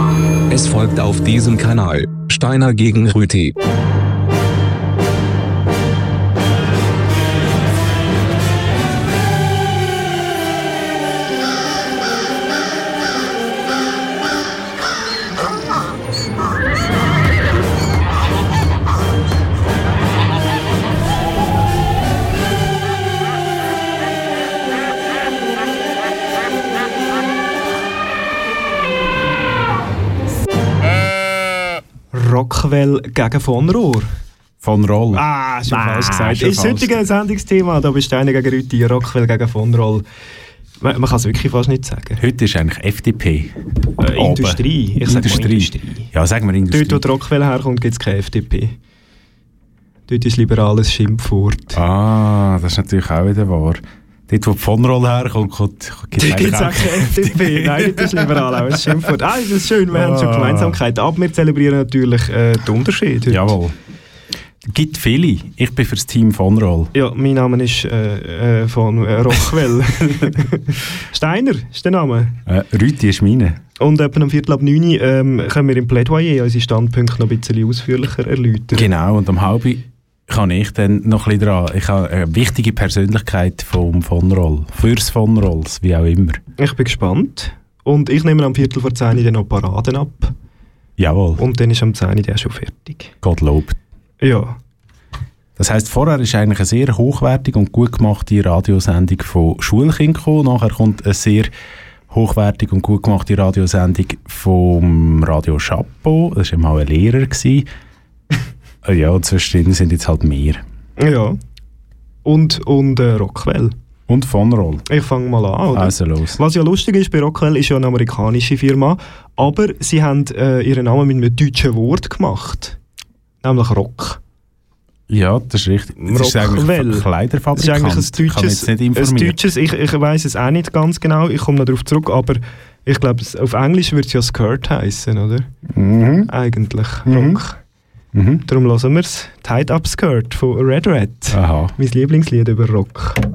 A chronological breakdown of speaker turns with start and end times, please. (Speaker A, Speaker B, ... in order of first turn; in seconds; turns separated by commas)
Speaker A: 0.5-3.5, Speaker B: 32.1-34.1, Speaker C: 34.6-37.0, Speaker B: 35.1-40.0, Speaker B: 40.8-42.2, Speaker C: 42.2-43.5, Speaker B: 44.0-46.1, Speaker C: 44.1-47.0, Speaker B: 46.7-48.8, Speaker B: 50.1-51.8, Speaker C: 51.7-58.9, Speaker B: 56.2-63.5, Speaker C: 59.9-60.8, Speaker C: 63.3-63.7, Speaker C: 64.7-66.9, Speaker B: 66.9-72.4, Speaker C: 72.5-73.6, Speaker B: 73.8-78.9, Speaker C: 78.7-86.4, Speaker B: 86.6-90.3, Speaker C: 91.0-91.4, Speaker B: 91.4-93.1, Speaker C: 93.2-93.8, Speaker B: 94.2-94.6, Speaker C: 95.6-101.5, Speaker C: 102.1-107.7, Speaker C: 108.8-110.6, Speaker B: 111.0-111.4, Speaker B: 112.2-113.7, Speaker C: 114.1-114.8, Speaker B: 114.9-122.8, Speaker C: 115.7-116.4, Speaker B: 123.4-124.2, Speaker C: 125.1-129.4, Speaker B: 126.0-135.5, Speaker C: 135.7-136.3, Speaker B: 136.3-137.6, Speaker C: 137.1-137.4, Speaker C: 138.1-138.4, Speaker B: 138.5-143.2, Speaker C: 141.3-141.7